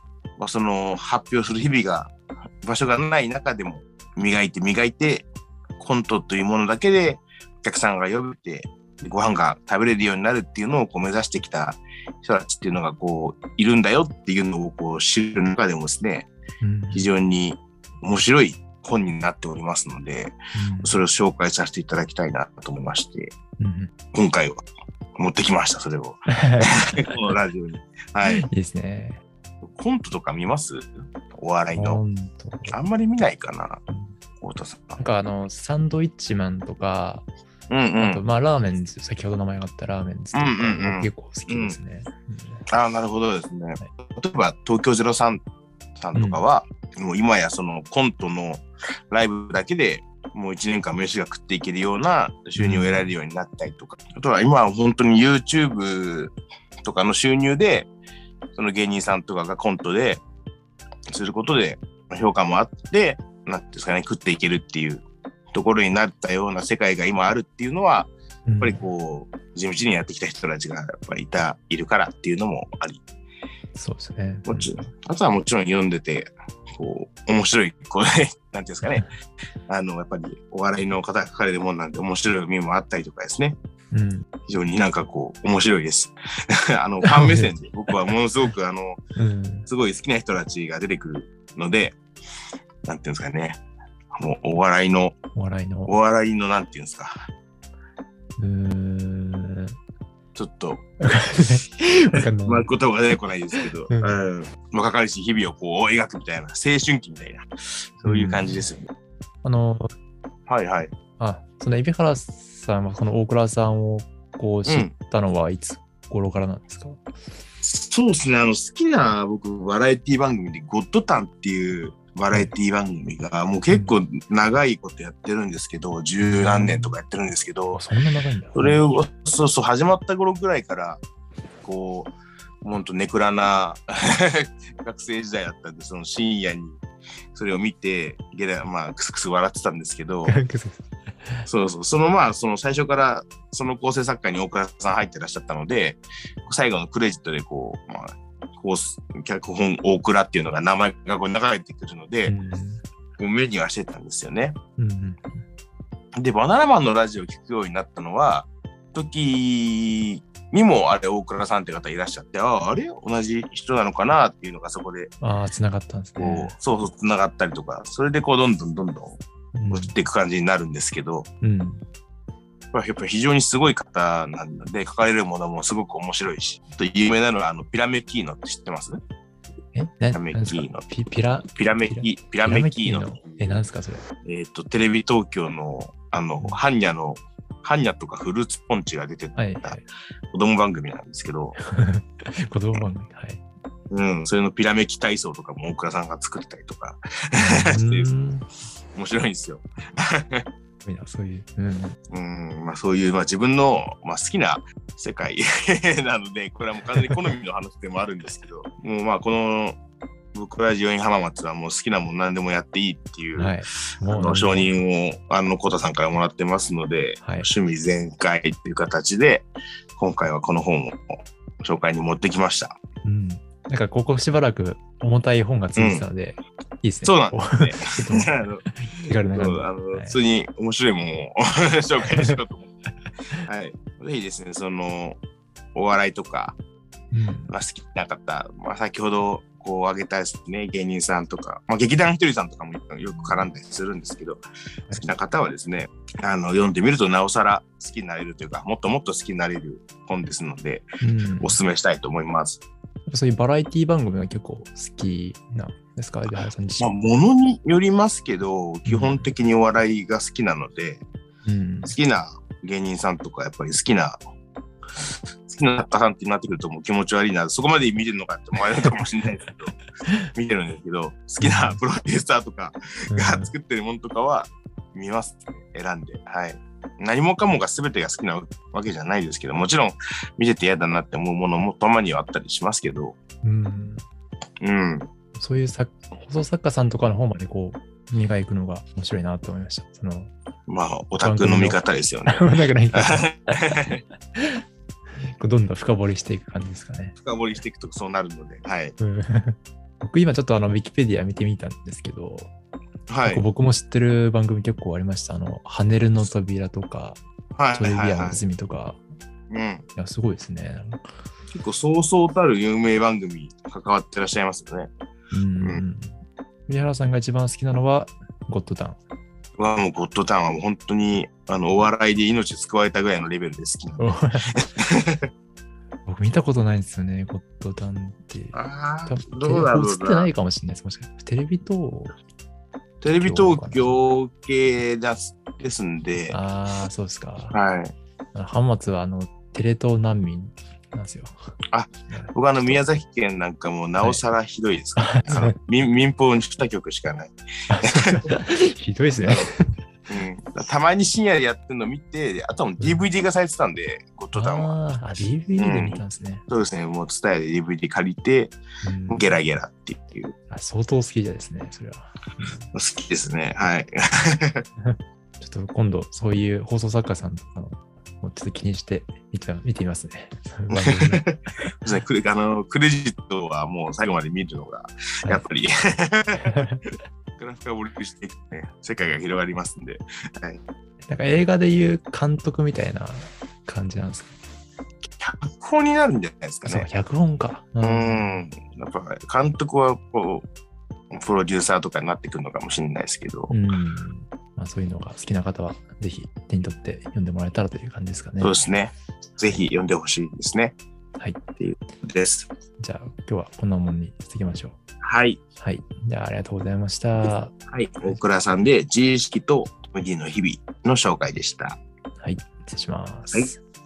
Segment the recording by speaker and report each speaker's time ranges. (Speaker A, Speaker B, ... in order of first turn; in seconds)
Speaker A: 0.4-2.1, 2.6-5.3, 5.8-16.3, 16.9-23.3, 24.1-24.6, 25.2-28.5, 29.8-32.0, 32.7-33.8, 34.4-35.0, 37.7-38.2, 40.3-41.8, 42.7-45.4, 46.0-56.3, 56.8-57.9, 58.5-60.2, 61.1-73.0, 74.5-79.1, 79.7-83.6, 84.5-89.0, 89.7-92.0, 92.8-93.6, 94.2-95.2, 95.9-97.1, 100.3-100.8, 102.4-107.5, 108.0-108.9, 110.5-110.9, 114.7-114.9, 117.6-127.8, 128.5-131.0, 131.6-132.1, 132.6-136.8, 137.3-140.3, 141.5-152.3, 153.2-154.6, 156.2-165.1, 166.2-171.3, 172.7-179.0, 180.1-180.9, 181.5-183.6, 184.2-191.6, 193.9-198.1, 198.9-200.4, 202.1-209.8, 210.3-222.8, 225.8-226.0, 227.0-228.6, 229.3-232.7, 233.4-235.2, 235.7-236.6, 237.5-244.4, 244.9-250.9, 251.4-252.6, 256.8-261.0, 261.9-264.2, 265.0-269.8, 270.3-283.2, 284.6-285.1, 290.7-294.0, 297.2-298.9, 303.1-303.4, 307.6-308.4, 309.5-309.8, 311.5-314.9, 319.6-325.2, 328.5-330.3, 333.0-336.4, 337.5-337.9, 341.7-348.3, 349.2-349.5, 350.1-354.8, 355.6-358.6, 359.1-360.3, 362.7-364.6, 370.7-376.6, 377.4-380.6, 385.2-386.9, 387.8-390.4, 391.1-393.6, 398.4-400.8, 401.6-402.5, 405.0-405.4, 407.7-411.8
Speaker B: 16.6-17.0, 20.5-21.0, 23.6-23.9, 26.3-27.1, 28.2-29.2, 31.7-32.8, 35.0-37.2, 38.0-42.6, 46.1-46.4, 52.6-53.1, 68.5-68.8, 73.7-74.9, 83.9-84.2, 87.0-87.5, 89.2-89.7, 95.3-95.9, 98.4-99.8, 101.0-102.7, 103.6-104.2, 108.0-108.6, 109.4-109.9, 111.2-117.0, 123.7-124.0, 126.2-127.0, 127.7-128.9, 140.3-141.5, 152.2-152.8, 154.8-155.4, 165.2-166.6, 169.5-169.9, 171.4-171.8, 179.7-184.0, 189.3-189.8, 191.7-193.4, 197.4-198.4, 200.8-202.0, 213.3-214.7, 217.2-217.5, 223.0-230.2, 232.1-232.4, 237.1-237.5, 251.0-251.6, 253.1-257.2, 258.8-259.3, 261.4-261.9, 271.4-271.8, 273.1-273.5, 283.4-284.0, 285.4-290.3, 291.2-293.8, 295.2-297.1, 299.0-302.5, 303.2-307.2, 307.7-309.0, 309.9-311.0, 315.3-319.0, 324.0-324.5, 326.1-332.1, 333.2-334.0, 336.3-337.6, 338.3-341.4, 342.1-342.8, 345.0-345.5, 347.7-349.5, 352.8-353.0, 354.3-356.4, 358.8-359.3, 360.5-362.7, 364.8-371.7, 376.4-376.8, 381.1-384.3, 386.6-388.3, 393.5-398.6, 402.8-404.8, 405.6-407.5, 412.2-413.6